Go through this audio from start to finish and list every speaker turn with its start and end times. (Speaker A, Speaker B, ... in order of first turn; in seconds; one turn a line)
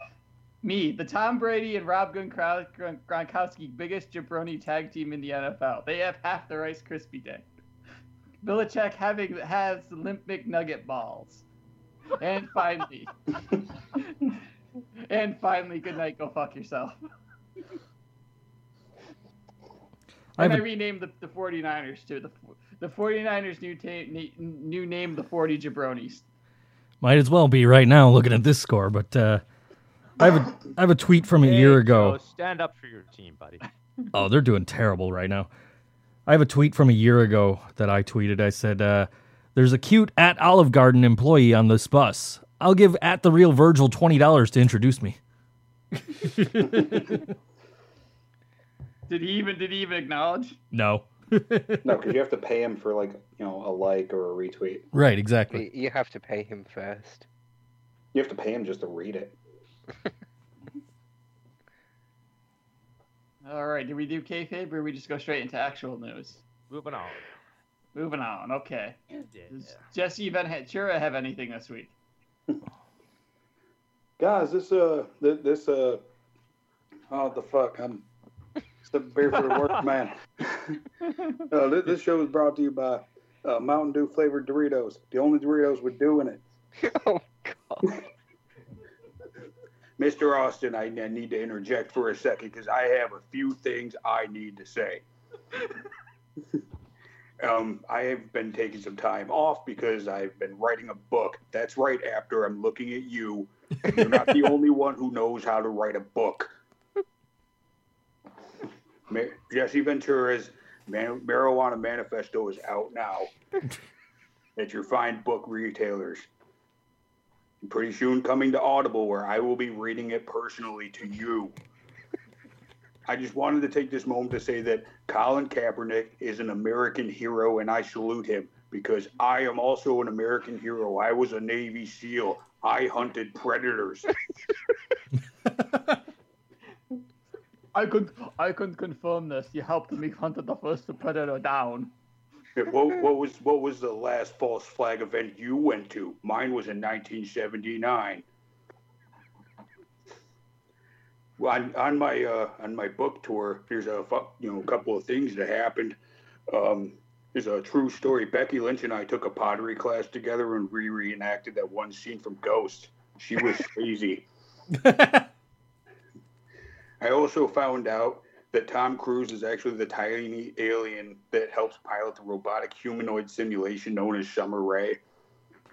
Speaker A: 0.6-7.5
Speaker A: 8.4-11.4
Speaker A: 12.1-13.1
Speaker A: 13.9-14.3
Speaker A: 15.0-17.0
Speaker B: 20.4-20.6
Speaker A: 20.4-26.2
Speaker B: 27.0-29.4
Speaker B: 30.2-32.2
Speaker C: 31.4-33.6
Speaker B: 34.1-35.5
Speaker B: 36.2-45.2
Speaker B: 46.0-47.3
Speaker A: 49.1-50.6
Speaker B: 50.7-51.9
Speaker D: 51.8-54.9
Speaker B: 54.9-55.6
Speaker E: 55.5-57.3
Speaker D: 58.1-59.4
Speaker A: 63.4-66.4
Speaker C: 66.7-67.2
Speaker A: 67.9-71.9
Speaker C: 69.3-69.8
Speaker D: 74.2-76.0
Speaker D: 77.1-78.0
Speaker D: 78.8-80.8
Speaker D: 81.5-86.4
Speaker E: 86.8-88.0
Speaker D: 90.0-95.0
Speaker D: 97.4-106.5
Speaker D: 109.1-113.3
Speaker D: 114.5-116.3
Speaker D: 117.6-121.6
Speaker D: 123.1-134.2
Speaker A: 137.7-141.9
Speaker D: 142.5-148.2
Speaker D: 151.4-156.0
Speaker D: 156.5-164.2
Speaker B: 164.8-165.2
Speaker D: 167.0-175.0